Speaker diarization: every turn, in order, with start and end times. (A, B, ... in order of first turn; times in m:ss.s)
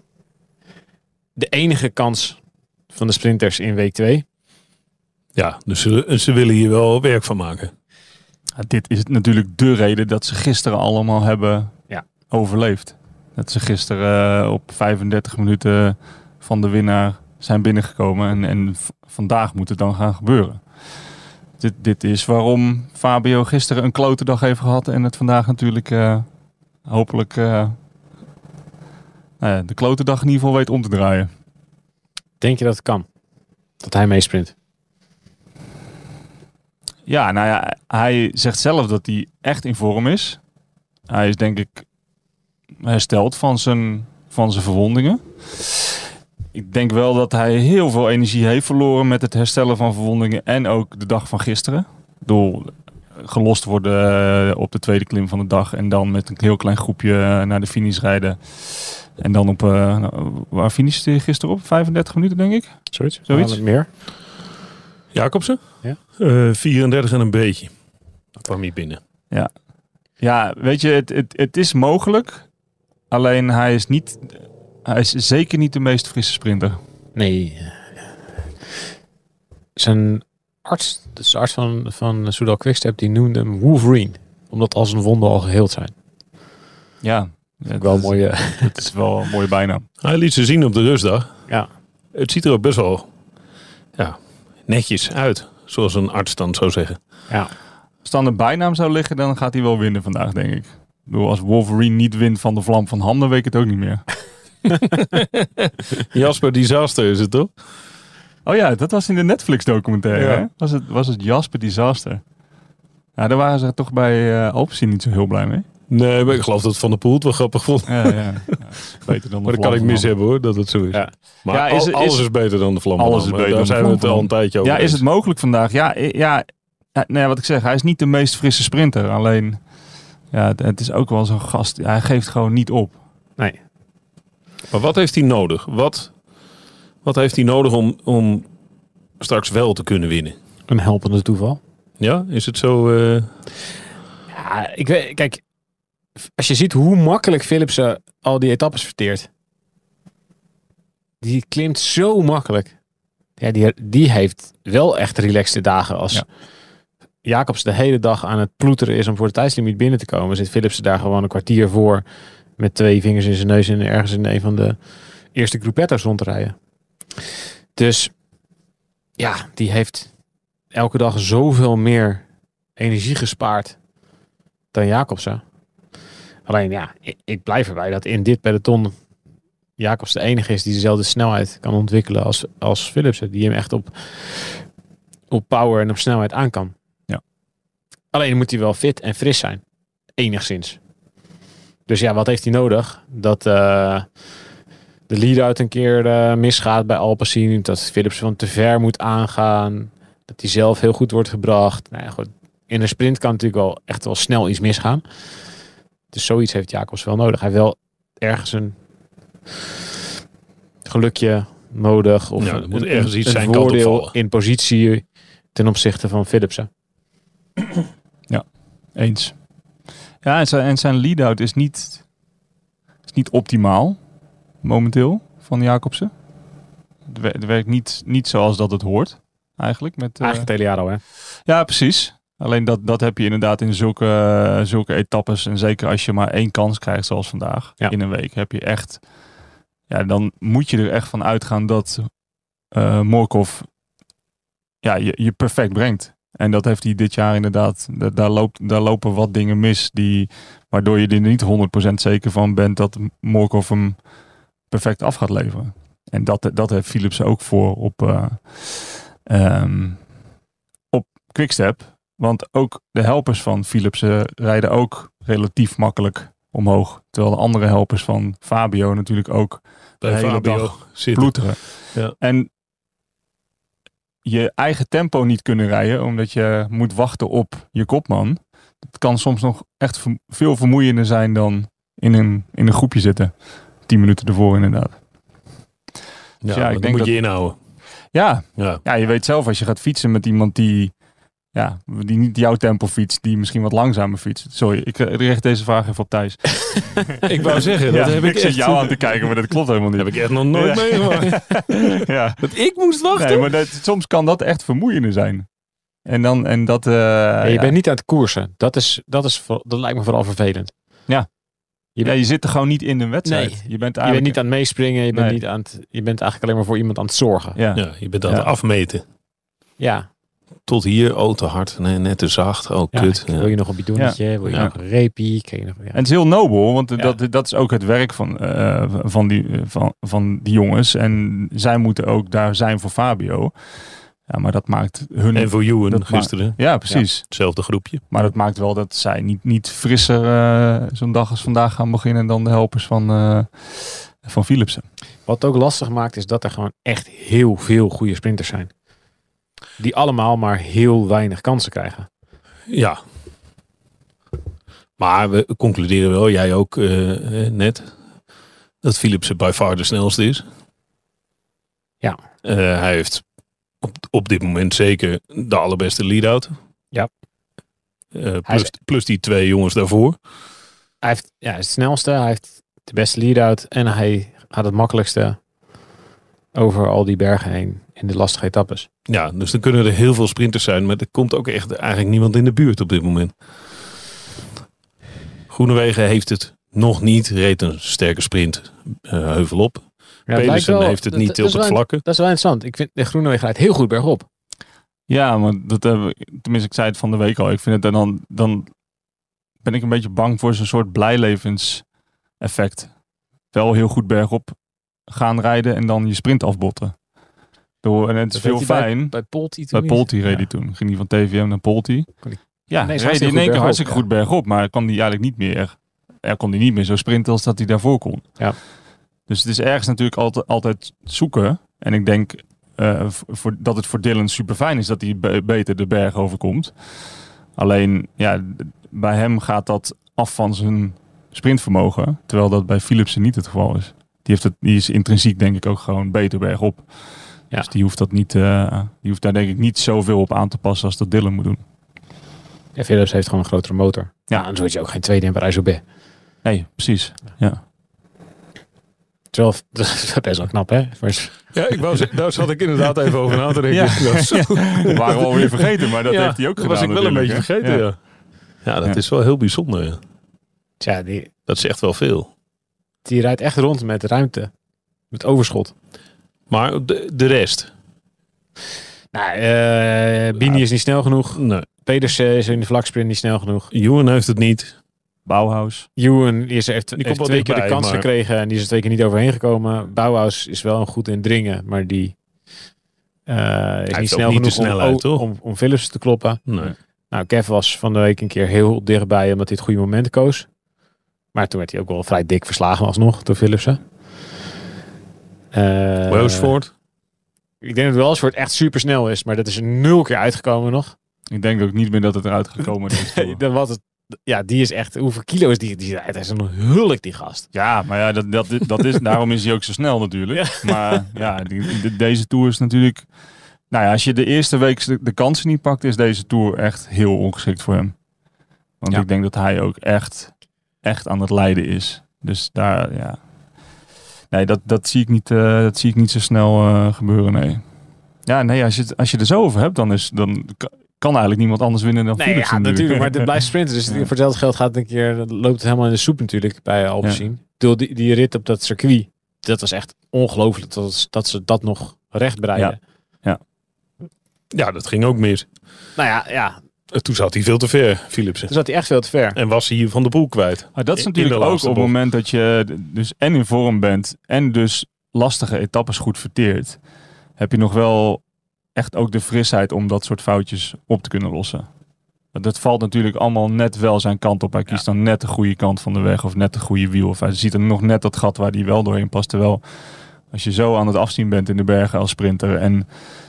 0:01.4-0:02.4 A
0:02.9-0:04.2 A
0:05.3-0:07.7 B
0:08.6-0:11.8 C
0:12.3-0:20.6 C
0:21.6-0:26.2 C
0:26.8-0:27.7 C
0:29.4-0:31.3 C
0:32.4-0:33.1 A
0:33.8-0:34.5 A
0:37.1-0:40.4 C
0:41.1-0:41.8 C
0:42.8-0:46.0 C
0:46.5-1:03.6 C
1:02.9-1:03.9 A
1:05.1-1:05.6 B
1:06.1-1:07.7 B
1:08.4-1:09.0 B
1:10.2-1:12.4 C
1:13.1-1:14.3 C
1:14.8-1:16.8 C
1:17.1-1:17.8 A
1:19.8-1:25.9 A
1:27.0-1:29.8 C
1:27.7-1:28.8 A
1:30.0-1:31.3 B
1:32.1-1:33.1 B
1:34.0-1:37.0 B
1:38.0-1:44.2 C
1:44.9-1:47.5 B
1:48.4-1:52.2 C
1:50.1-1:50.5 B
1:53.2-1:55.6 C
1:55.9-1:58.6 B
1:57.9-2:00.1 C
1:59.4-2:05.0 B
2:01.5-2:02.2 C
2:03.0-2:09.6 C
2:10.3-2:13.0 C
2:14.7-2:16.1 B
2:17.0-2:18.5 B
2:19.2-2:20.4 B
2:20.7-2:21.6 A
2:22.0-2:23.3 B
2:24.3-2:25.4 A
2:26.2-2:29.3 A
2:31.2-2:32.7 A
2:33.4-2:36.2 A
2:37.2-2:42.0 A
2:42.6-2:44.8 A
2:45.3-2:46.5 A
2:47.8-2:48.1 A
2:49.2-2:50.1 A
2:50.7-2:52.2 A
2:52.8-2:53.8 A
2:54.7-2:55.4 A
2:56.5-2:58.9 A
2:59.8-3:04.6 A
3:05.3-3:06.7 A
3:08.1-3:09.6 A
3:10.2-3:10.8 A
3:11.9-3:14.1 A
3:15.1-3:25.0 A
3:26.1-3:28.8 A
3:30.8-3:36.7 A
3:32.4-3:34.1 B
3:38.3-3:39.3 C
3:40.2-3:42.0 C
3:43.1-3:44.0 C
3:44.6-3:46.1 C
3:47.1-3:50.5 C
3:50.2-3:51.0 A
3:51.4-3:59.0 C
3:59.9-4:02.1 C
4:02.7-4:03.7 C
4:04.8-4:14.0 C
4:14.7-4:20.1 C
4:20.9-4:32.5 C
4:30.0-4:32.1 B
4:34.2-4:43.3 C
4:43.8-4:45.0 C
4:46.4-4:47.6 B
4:46.5-4:47.3 C
4:48.1-4:50.9 C
4:48.6-4:48.8 B
4:51.5-4:57.2 C
4:57.2-4:59.2 B
4:57.9-5:02.5 C
5:00.0-5:03.5 B
5:03.1-5:05.5 C
5:06.0-5:07.7 C
5:07.4-5:10.7 A
5:12.0-5:14.5 C
5:13.2-5:17.6 A
5:15.1-5:15.4 C
5:17.6-5:18.5 C
5:17.7-5:19.0 B
5:19.8-5:20.1 A
5:20.6-5:23.5 B
5:22.9-5:26.0 A
5:24.0-5:24.7 C
5:25.9-5:33.5 C
5:34.2-5:37.5 C
5:35.3-5:38.0 B
5:38.1-5:44.8 C
5:45.3-5:48.7 A
5:49.8-5:52.1 A
5:52.7-5:53.0 B
5:55.0-5:57.9 B
5:58.8-6:00.4 B
6:02.4-6:03.2 B
6:03.8-6:06.5 B
6:08.1-6:10.2 B
6:08.4-6:08.7 A
6:11.0-6:15.4 A
6:16.5-6:18.9 A
6:19.1-6:23.3 B
6:25.5-6:32.0 B
6:30.3-6:34.2 A
6:35.1-6:38.7 C
6:39.6-6:41.8 C
6:42.4-6:42.9 C
6:43.5-6:44.5 C
6:45.1-6:47.0 C
6:47.8-6:58.4 C
6:48.3-6:50.5 A
6:52.2-6:54.0 A
6:59.3-7:06.7 C
7:07.6-7:16.9 C
7:17.5-7:21.6 C
7:22.8-7:25.8 A
7:26.4-7:27.6 C
7:29.3-7:31.4 A
7:31.5-7:38.0 B
7:33.7-7:37.9 C
7:38.6-7:40.0 B
7:40.8-7:41.3 A
7:41.5-7:42.3 B
7:43.0-7:44.5 A
7:45.1-7:45.7 A
7:46.5-7:47.7 B
7:49.1-7:53.7 A
7:51.3-7:51.6 B
7:53.7-7:54.7 B
7:55.2-7:55.9 C
7:56.0-8:02.1 A
7:57.0-7:58.1 B
8:03.3-8:06.4 A
8:03.9-8:05.2 B
8:06.5-8:06.7 B
8:07.1-8:10.5 A
8:11.3-8:13.8 A
8:15.5-8:16.5 A
8:16.1-8:16.7 B
8:17.6-8:20.9 A
8:21.3-8:23.4 C
8:22.9-8:27.5 A
8:27.5-8:33.1 C
8:30.3-8:31.3 A
8:33.7-8:37.9 C
8:38.8-8:43.2 C
8:44.3-8:47.6 C
8:48.2-8:53.3 C
8:52.2-9:02.8 A
9:02.6-9:03.4 C
9:04.5-9:05.5 B
9:06.0-9:06.6 A
9:06.9-9:08.5 B
9:08.5-9:09.4 A
9:09.3-9:11.9 B
9:10.8-9:16.8 C
9:17.4-9:18.2 C
9:18.7-9:21.7 C
9:22.3-9:29.6 C
9:30.3-9:32.8 C